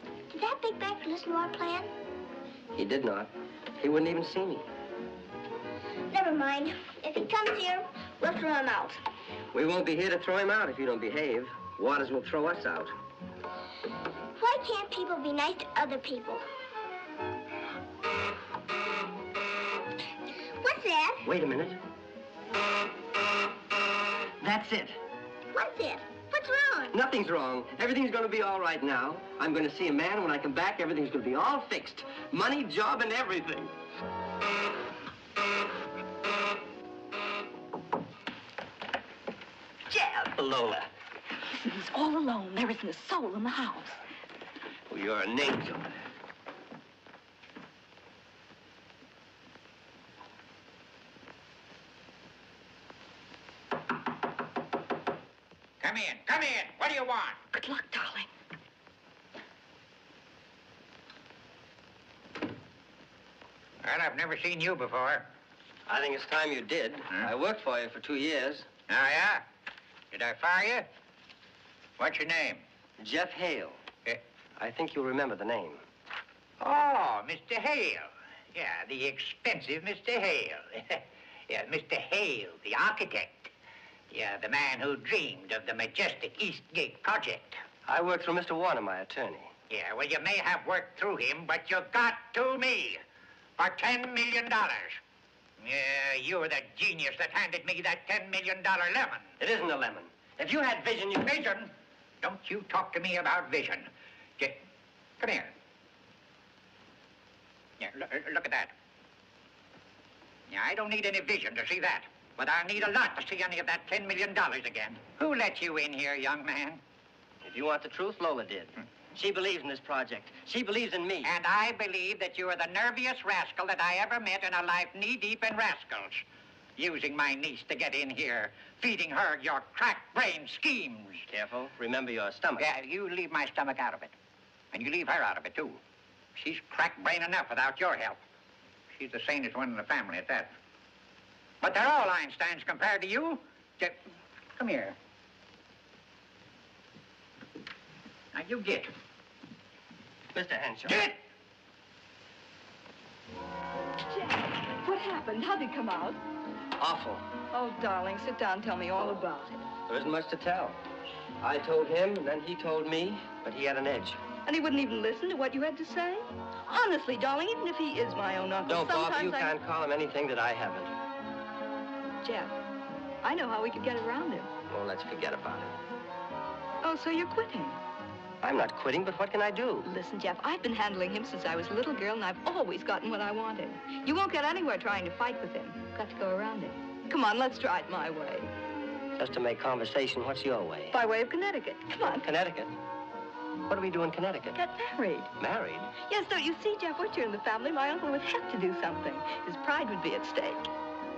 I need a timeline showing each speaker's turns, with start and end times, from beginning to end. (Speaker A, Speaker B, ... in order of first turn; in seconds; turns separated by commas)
Speaker A: 0.3-1.9, Speaker B: 2.7-4.7, Speaker A: 6.1-9.0, Speaker B: 9.5-12.9, Speaker A: 14.4-16.4, Speaker A: 20.6-21.2, Speaker B: 21.2-21.8, Speaker B: 24.4-25.0, Speaker A: 25.5-26.9, Speaker B: 26.9-33.7, Speaker C: 39.9-40.3, Speaker B: 40.3-40.9, Speaker C: 42.6-43.8, Speaker B: 44.9-45.9, Speaker D: 55.8-57.4, Speaker D: 63.8-65.2, Speaker B: 65.9-68.7, Speaker D: 68.9-69.5, Speaker D: 70.1-70.8, Speaker D: 72.0-72.6, Speaker B: 73.0-73.8, Speaker B: 74.6-75.8, Speaker D: 76.6-83.5, Speaker D: 84.1-87.6, Speaker B: 87.8-89.5, Speaker D: 89.7-93.0, Speaker D: 93.6-95.0, Speaker D: 95.6-99.2, Speaker B: 99.4-101.3, Speaker D: 100.6-101.7, Speaker D: 102.2-104.6, Speaker D: 105.2-105.5, Speaker D: 107.8-108.7, Speaker D: 110.5-116.8, Speaker B: 117.4-121.3, Speaker D: 121.2-126.2, Speaker D: 126.8-131.3, Speaker B: 131.3-132.8, Speaker D: 132.6-134.1, Speaker D: 134.7-135.8, Speaker D: 136.3-138.2, Speaker D: 138.9-140.5, Speaker D: 141.6-144.0, Speaker D: 144.6-145.0, Speaker D: 148.3-148.9, Speaker B: 150.3-151.1, Speaker D: 150.9-151.1, Speaker C: 154.1-156.2, Speaker B: 156.8-157.2, Speaker C: 157.5-159.6, Speaker B: 159.9-160.8, Speaker B: 161.4-164.2, Speaker C: 164.4-169.5, Speaker B: 168.6-170.9, Speaker C: 172.2-172.5, Speaker C: 173.2-174.5, Speaker B: 174.7-175.8, Speaker C: 176.8-177.8, Speaker B: 178.4-179.9, Speaker C: 179.8-188.5, Speaker B: 189.2-190.9, Speaker C: 190.9-192.3, Speaker B: 192.2-192.7, Speaker B: 193.7-194.6, Speaker C: 194.5-195.3, Speaker B: 195.4-195.9, Speaker C: 196.0-200.7